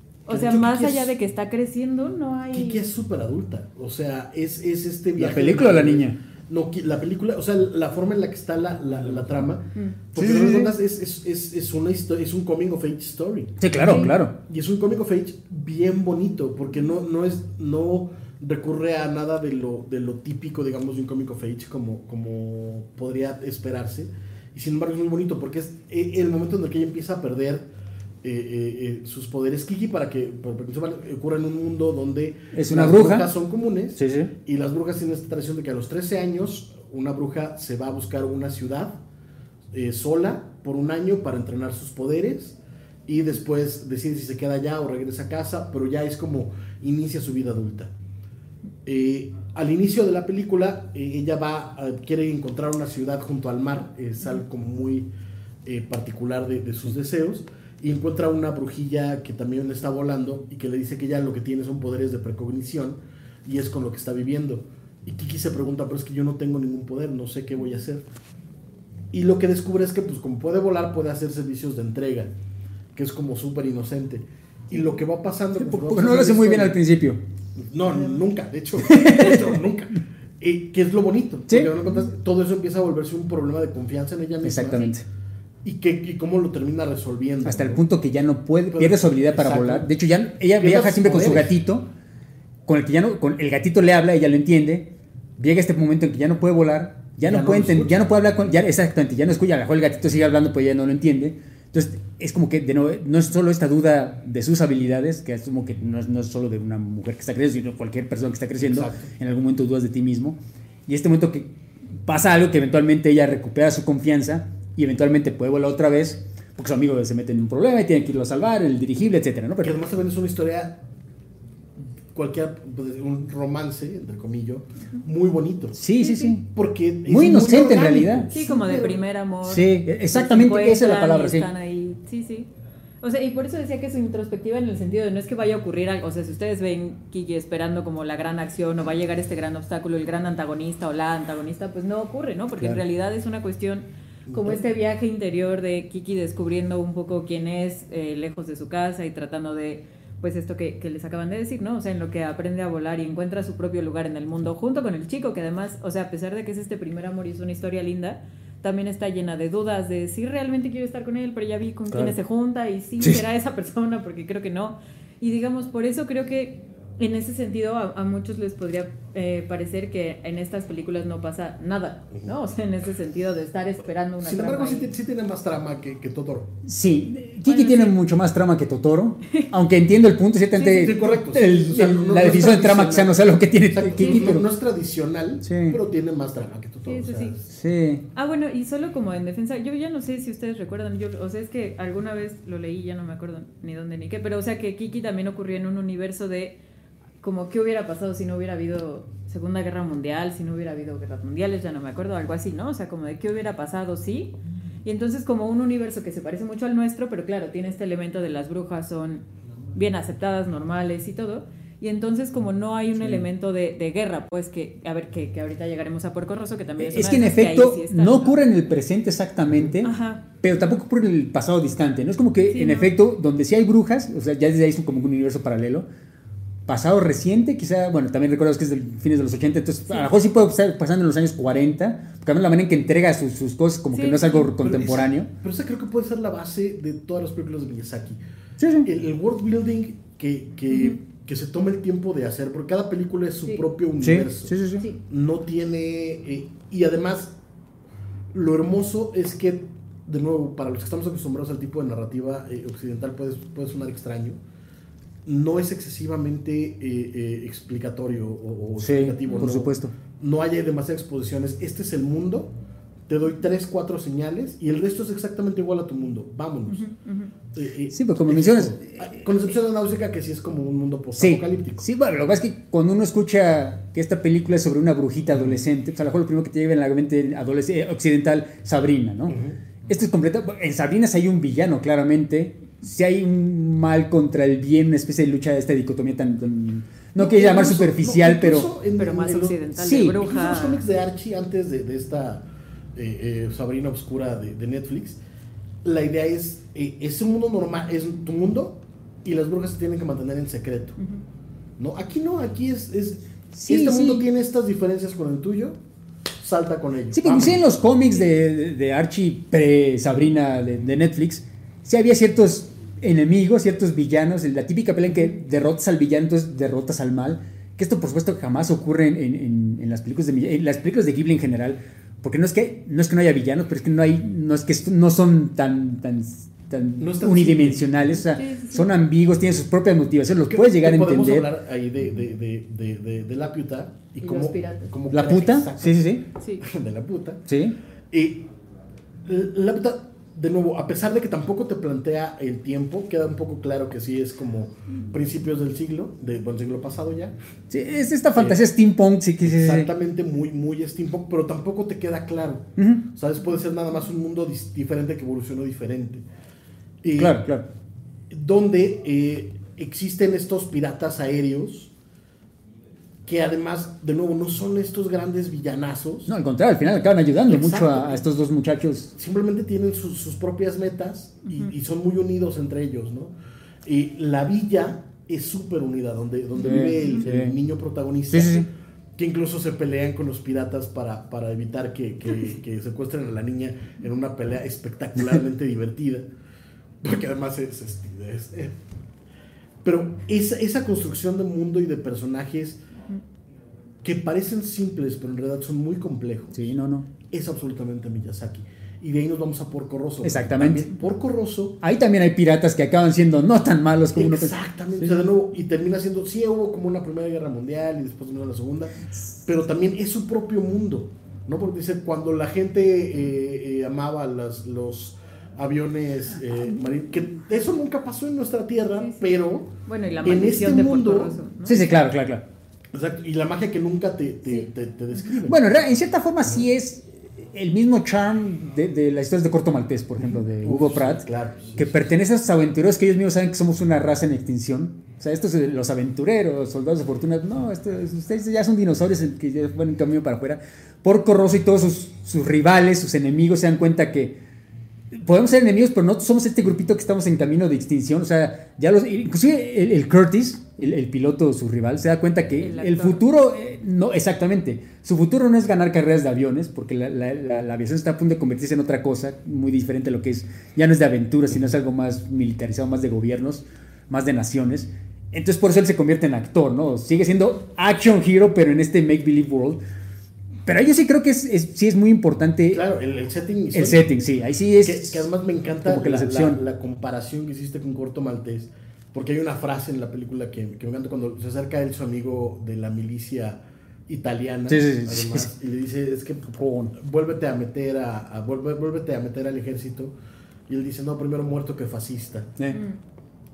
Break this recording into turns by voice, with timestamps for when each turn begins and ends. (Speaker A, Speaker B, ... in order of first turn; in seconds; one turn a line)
Speaker A: 0.2-2.8
Speaker B: 0.3-1.1
Speaker B: 2.5-27.7
Speaker C: 5.2-6.2
Speaker C: 10.1-10.7
Speaker C: 13.6-14.3
Speaker A: 13.8-14.1
Speaker B: 28.2-39.0
Speaker C: 32.5-33.3
Speaker C: 33.9-34.3
Speaker B: 39.7-47.9
Speaker B: 48.8-55.1
Speaker B: 55.6-68.0
Speaker B: 69.1-72.3
Speaker B: 72.9-76.8
Speaker C: 75.6-77.2
Speaker B: 77.6-84.9
Speaker C: 78.8-79.5
Speaker C: 84.4-85.0
Speaker B: 85.6-87.8
Speaker C: 87.4-91.9
Speaker B: 88.7-89.9
Speaker B: 90.6-91.5
Speaker C: 92.7-119.8
Speaker B: 97.2-98.2
Speaker B: 108.6-109.1
Speaker B: 119.6-120.8
Speaker B: 122.1-125.8
Speaker C: 125.8-126.5
Speaker A: 126.0-126.4
Speaker B: 126.5-129.0
Speaker C: 127.0-128.3
Speaker A: 128.3-132.5
Speaker C: 129.4-131.5
Speaker A: 133.0-174.9
Speaker B: 144.3-144.6
Speaker B: 161.9-162.1
Speaker B: 174.2-176.5
Speaker C: 176.6-184.5
Speaker A: 177.5-178.0
Speaker A: 180.6-181.0
Speaker B: 180.7-187.5
Speaker A: 184.0-184.3
Speaker C: 185.4-185.8
Speaker A: 186.8-187.3
Speaker C: 187.5-188.0
Speaker A: 188.1-196.6
Speaker A: 197.2-218.4
Speaker C: 216.8-225.9
Speaker A: 219.8-220.2
Speaker A: 222.4-222.9
Speaker C: 226.7-235.3
Speaker A: 233.9-234.5
Speaker B: 234.6-238.2
Speaker C: 238.6-238.9
Speaker B: 238.8-247.3
Speaker A: 240.7-241.0
Speaker C: 244.0-244.8
Speaker B: 248.3-254.4
Speaker B: 255.2-262.5
Speaker C: 258.8-259.9
Speaker A: 259.2-259.5
Speaker B: 263.1-266.9
Speaker A: 266.7-267.3
Speaker B: 267.5-271.9
Speaker C: 267.9-269.2
Speaker C: 271.1-288.7
Speaker B: 279.3-279.6
Speaker B: 287.1-295.2
Speaker A: 289.0-290.8
Speaker C: 289.7-290.2
Speaker B: 295.8-301.0
Speaker B: 301.8-305.8
Speaker C: 303.5-304.2
Speaker B: 306.4-307.6
Speaker C: 307.1-331.5
Speaker B: 327.0-328.0
Speaker A: 328.3-328.9
Speaker B: 330.4-337.4
Speaker A: 334.2-334.9
Speaker C: 335.1-336.2
Speaker A: 336.4-336.6
Speaker C: 337.5-337.8
Speaker B: 338.1-338.5
Speaker B: 339.2-347.3
Speaker C: 347.7-349.9
Speaker B: 348.3-348.6
Speaker B: 349.4-356.2
Speaker C: 352.8-353.0
Speaker B: 357.0-357.5
Speaker C: 357.1-357.6
Speaker B: 358.3-361.9
Speaker B: 363.2-366.3
Speaker C: 366.3-369.1
Speaker B: 367.3-368.2
Speaker B: 369.1-373.3
Speaker B: 373.8-386.2
Speaker C: 376.6-377.5
Speaker A: 376.8-377.2
Speaker C: 378.3-378.7
Speaker B: 387.0-388.8
Speaker B: 389.8-392.8
Speaker B: 394.0-396.7
Speaker C: 396.5-397.1
Speaker B: 397.3-401.8
Speaker C: 400.2-400.9
Speaker C: 401.8-405.2
Speaker B: 404.1-408.9
Speaker B: 409.4-421.4
Speaker A: 419.0-419.2
Speaker A: 419.9-421.9
Speaker C: 421.6-422.4
Speaker B: 422.9-425.6
Speaker C: 425.4-444.4
Speaker B: 430.2-432.1
Speaker C: 445.1-469.8
Speaker A: 452.6-453.2
Speaker C: 470.6-472.8
Speaker B: 472.7-474.0
Speaker C: 473.7-475.3
Speaker B: 474.8-490.1
Speaker C: 475.8-476.6
Speaker C: 484.7-485.5
Speaker C: 486.5-486.9
Speaker B: 490.7-492.5
Speaker A: 492.7-493.0